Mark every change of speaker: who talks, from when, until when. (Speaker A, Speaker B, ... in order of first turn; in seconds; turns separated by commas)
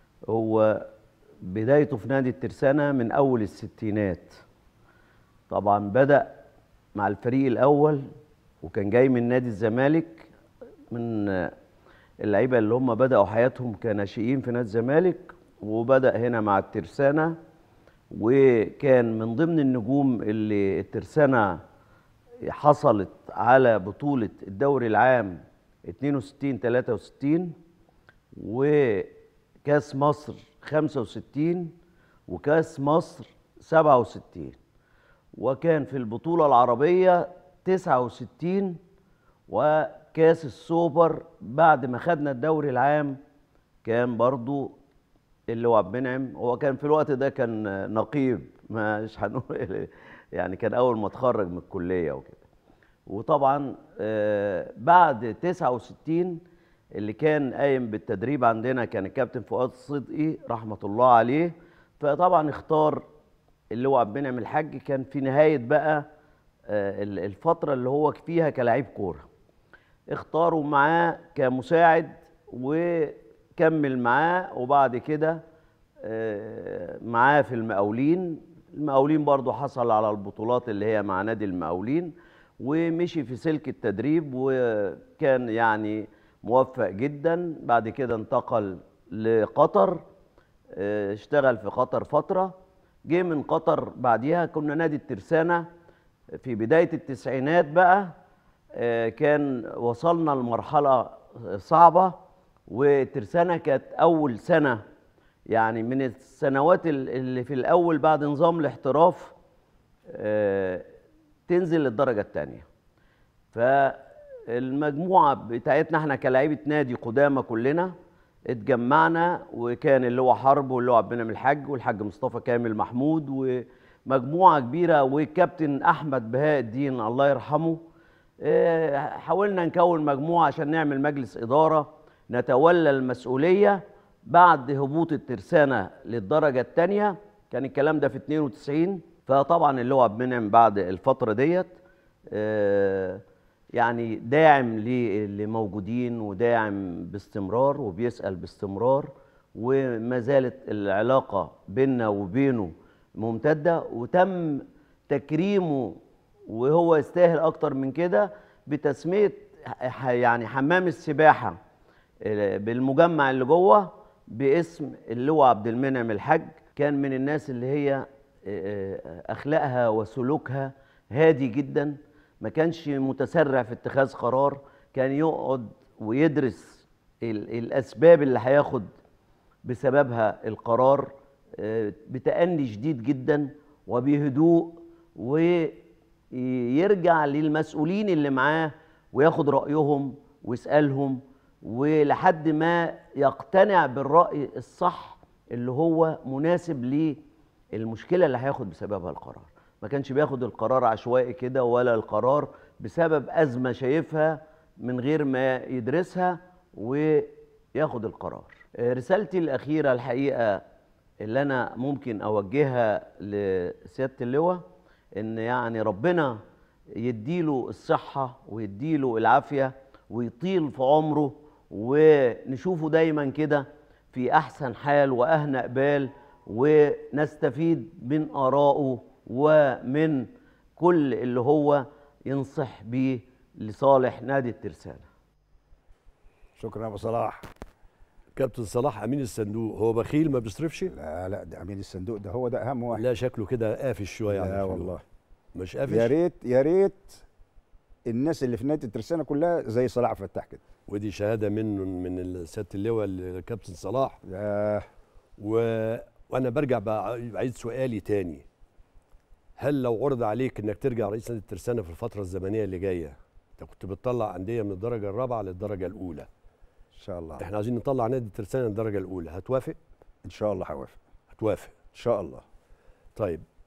Speaker A: 0.3-0.8, Speaker A: 1.5-4.4, Speaker A: 5.5-6.3, Speaker A: 7.0-8.0, Speaker A: 8.6-10.3, Speaker A: 10.9-11.5, Speaker A: 12.2-17.4, Speaker A: 18.1-21.6, Speaker A: 22.5-27.5, Speaker A: 28.4-29.1, Speaker A: 29.6-31.7, Speaker A: 32.3-34.6, Speaker A: 35.4-38.8, Speaker A: 39.5-43.2, Speaker A: 43.8-44.7, Speaker A: 45.5-52.5, Speaker A: 53.1-56.4, Speaker A: 57.0-63.0, Speaker A: 63.7-66.0, Speaker A: 66.7-69.2, Speaker A: 70.1-75.4, Speaker A: 76.0-90.0, Speaker A: 90.8-92.5, Speaker A: 93.1-95.6, Speaker A: 96.4-98.1, Speaker A: 98.8-102.1, Speaker A: 102.7-104.8, Speaker A: 105.5-109.3, Speaker A: 110.1-110.8, Speaker A: 111.5-112.7, Speaker A: 113.5-117.9, Speaker A: 118.5-127.8, Speaker A: 128.4-141.7, Speaker A: 142.3-143.2, Speaker A: 143.8-155.9, Speaker A: 156.5-161.6, Speaker A: 162.2-178.9, Speaker A: 179.7-185.7, Speaker A: 186.3-197.2, Speaker A: 197.7-210.6, Speaker A: 211.2-214.6, Speaker A: 215.2-216.4, Speaker A: 217.0-235.1, Speaker B: 236.6-237.5, Speaker C: 238.3-240.9, Speaker B: 240.9-243.1, Speaker C: 242.9-244.9, Speaker B: 244.3-245.0, Speaker C: 245.5-246.1, Speaker B: 245.9-247.2, Speaker B: 248.1-250.6, Speaker C: 250.9-254.2, Speaker B: 254.2-254.8, Speaker C: 255.4-258.4, Speaker C: 259.6-266.3, Speaker B: 267.0-267.4, Speaker C: 267.4-269.8, Speaker B: 270.2-271.0, Speaker C: 271.4-271.8, Speaker B: 271.9-272.4, Speaker C: 273.2-273.4